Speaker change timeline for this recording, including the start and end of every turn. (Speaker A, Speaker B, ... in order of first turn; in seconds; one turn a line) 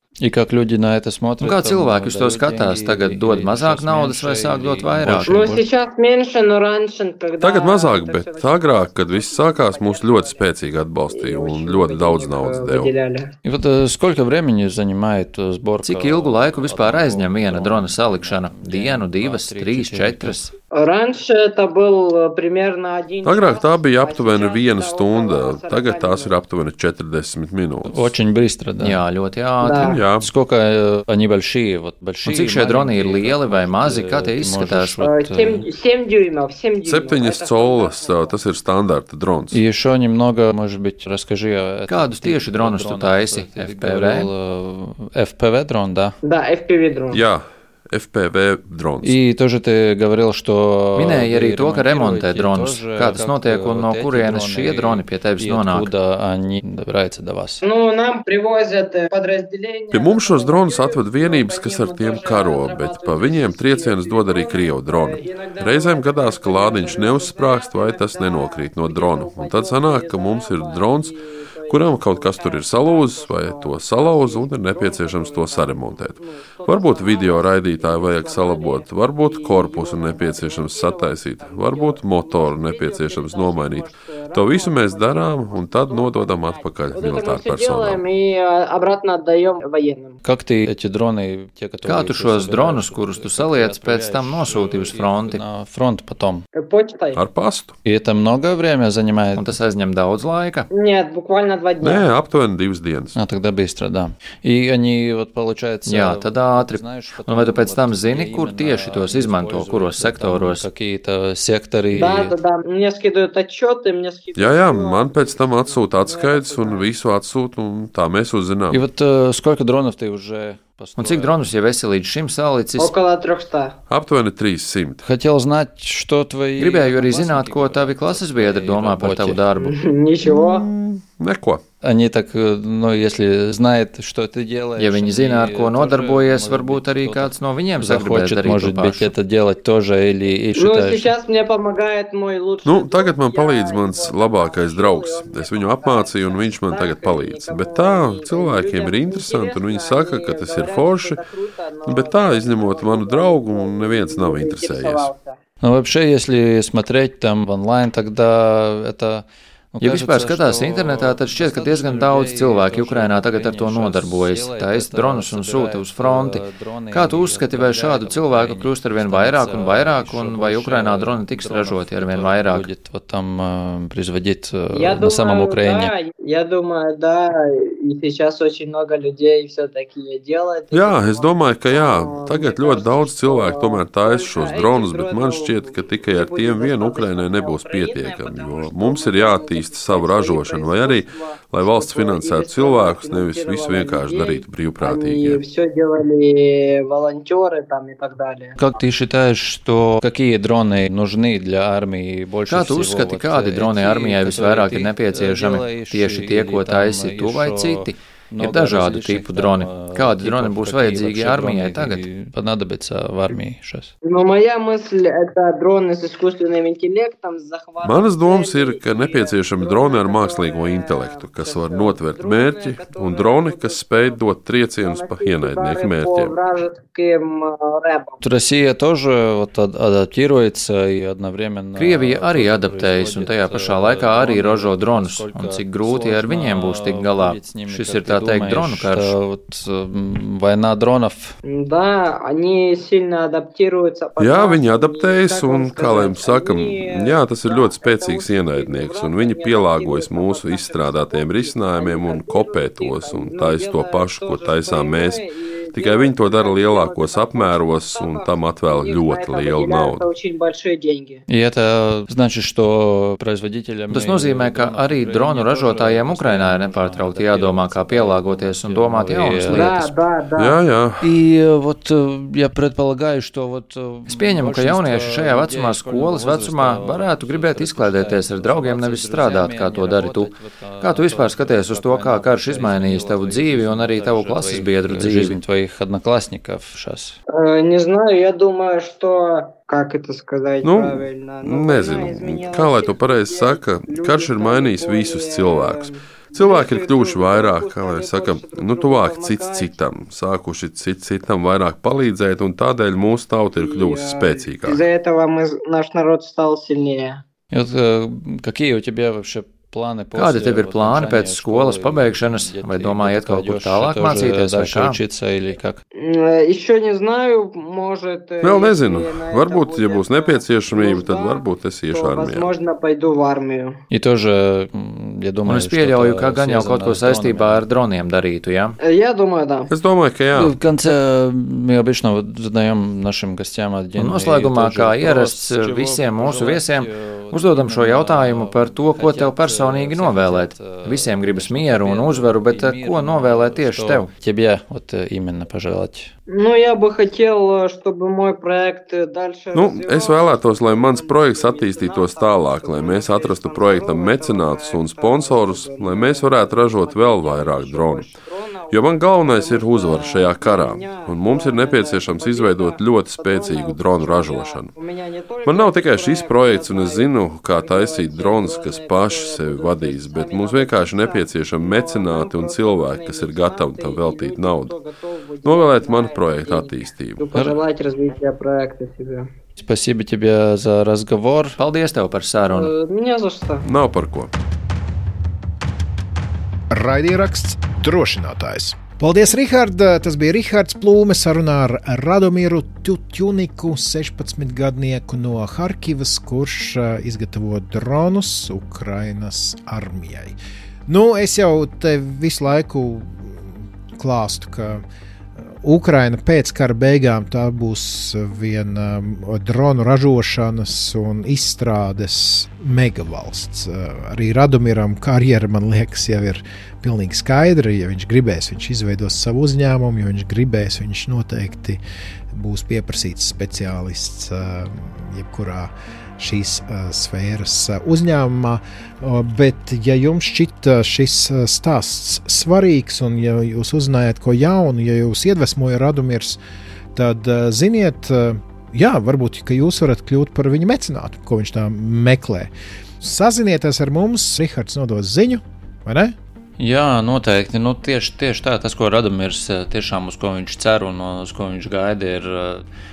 Speaker A: 0.2-5.6
Speaker B: 1.4-5.5
Speaker C: 5.3-10.5
Speaker D: 7.4-12.9
Speaker C: 11.1-13.3
Speaker A: 13.4-20.4
Speaker B: 15.8-20.5
Speaker C: 20.7-26.4
Speaker D: 23.2-28.1
Speaker A: 27.9-29.0
Speaker B: 28.8-30.0
Speaker C: 29.6-30.0
Speaker D: 29.8-30.3
Speaker A: 30.2-35.6
Speaker B: 32.2-35.0
Speaker C: 35.0-38.4
Speaker D: 36.8-39.6
Speaker A: 39.5-46.2
Speaker B: 41.9-44.3
Speaker C: 46.2-47.2
Speaker D: 47.1-49.2
Speaker A: 49.0-57.6
Speaker B: 51.0-55.9
Speaker C: 57.6-90.2
Speaker D: 59.9-71.1
Speaker D: 71.7-88.0
Speaker A: 90.2-96.4
Speaker B: 91.9-95.5
Speaker C: 96.6-97.2
Speaker D: 97.1-97.7
Speaker A: 97.8-99.5
Speaker B: 99.3-100.7
Speaker C: 100.7-102.1
Speaker D: 101.8-103.2
Speaker A: 103.2-112.3
Speaker B: 105.9-110.7
Speaker C: 111.9-116.9
Speaker D: 114.3-118.8
Speaker A: 118.7-121.5
Speaker B: 121.0-123.0
Speaker C: 122.8-123.8
Speaker D: 123.9-125.0
Speaker A: 125.0-129.4
Speaker B: 126.6-129.7
Speaker C: 129.6-130.7
Speaker D: 130.2-131.6
Speaker A: 131.8-141.1
Speaker B: 134.8-139.1
Speaker C: 140.6-155.4
Speaker D: 142.7-151.2
Speaker D: 151.9-155.1
Speaker A: 155.6-175.9
Speaker B: 159.8-172.7
Speaker C: 174.7-198.6
Speaker D: 180.7-195.4
Speaker A: 198.6-213.9
Speaker B: 202.5-212.0
Speaker C: 214.0-224.2
Speaker D: 217.8-226.3
Speaker C: 224.8-228.2
Speaker A: 228.2-241.3
Speaker B: 231.8-239.2
Speaker C: 241.4-261.2
Speaker D: 244.2-260.1
Speaker A: 261.3-269.8
Speaker B: 263.9-269.9
Speaker C: 269.5-270.6
Speaker D: 270.4-271.1
Speaker A: 271.0-287.2
Speaker B: 274.1-285.4
Speaker C: 287.4-299.8
Speaker D: 290.6-304.8
Speaker C: 303.6-307.2
Speaker A: 307.5-315.8
Speaker B: 310.1-315.0
Speaker C: 315.9-323.8
Speaker D: 318.4-322.5
Speaker A: 323.9-327.7
Speaker B: 325.4-328.8
Speaker C: 328.8-329.7
Speaker D: 329.7-330.6
Speaker A: 330.3-346.1
Speaker B: 334.0-344.1
Speaker C: 346.3-379.3
Speaker D: 349.5-358.1
Speaker D: 358.7-364.7
Speaker D: 365.4-374.7
Speaker D: 375.4-377.3
Speaker A: 379.6-381.6
Speaker B: 381.6-382.7
Speaker C: 382.5-383.7
Speaker D: 383.6-384.3
Speaker E: 386.7-400.4
Speaker E: 400.9-404.8
Speaker E: 405.6-421.8
Speaker E: 422.3-436.4
Speaker E: 436.9-446.2
Speaker A: 446.6-452.6